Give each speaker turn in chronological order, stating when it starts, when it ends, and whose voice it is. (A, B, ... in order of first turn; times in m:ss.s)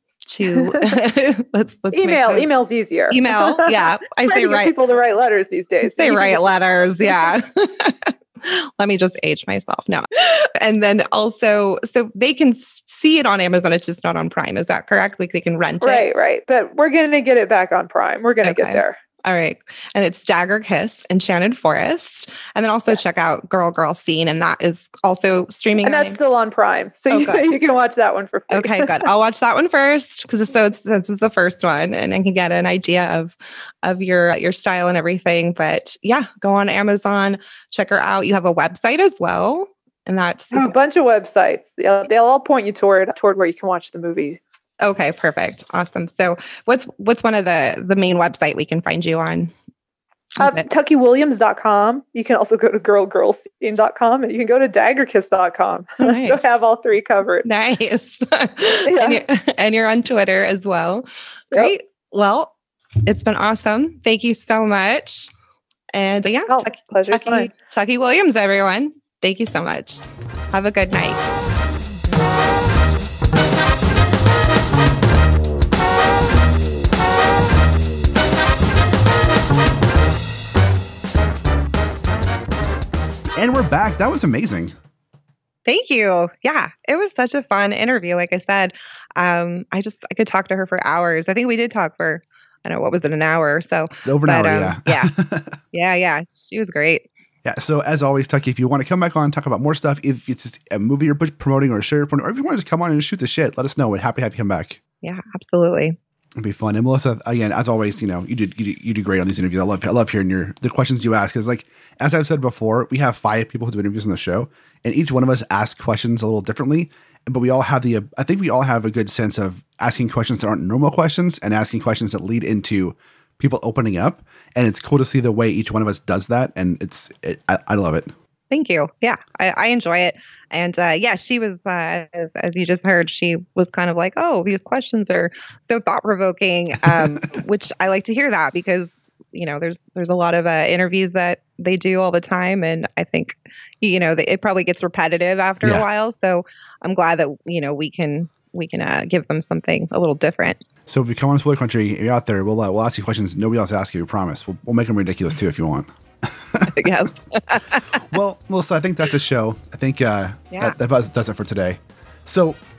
0:00.3-0:02.5 A
0:00.6-0:00.9 B
0:01.9-0:06.4 B
0:03.1-0:04.7 A
0:05.9-0:16.2 A
0:15.8-0:19.0 B
0:18.4-0:26.2 A
0:25.8-0:29.1 B
0:27.1-0:27.5 A
0:28.5-0:40.8 A
0:40.5-0:44.4 B
0:44.8-0:49.5 A
0:50.4-0:57.5 B
0:50.4-0:50.7 A
0:56.0-0:56.5 A
0:57.4-1:02.5 A
0:58.9-0:59.2 B
1:03.1-1:05.3 A
1:05.9-1:11.3 A
1:06.5-1:07.5 B
1:23.4-1:24.8 C
1:25.7-1:35.1 A
1:34.0-1:35.6 C
1:35.7-1:37.1 A
1:37.4-1:44.8 C
1:45.0-1:46.0 A
1:46.4-2:08.1 C
2:08.5-2:30.6 A
2:30.9-2:36.7 C
2:36.7-2:38.0 A
2:38.1-2:42.6 C
2:40.5-2:40.8 A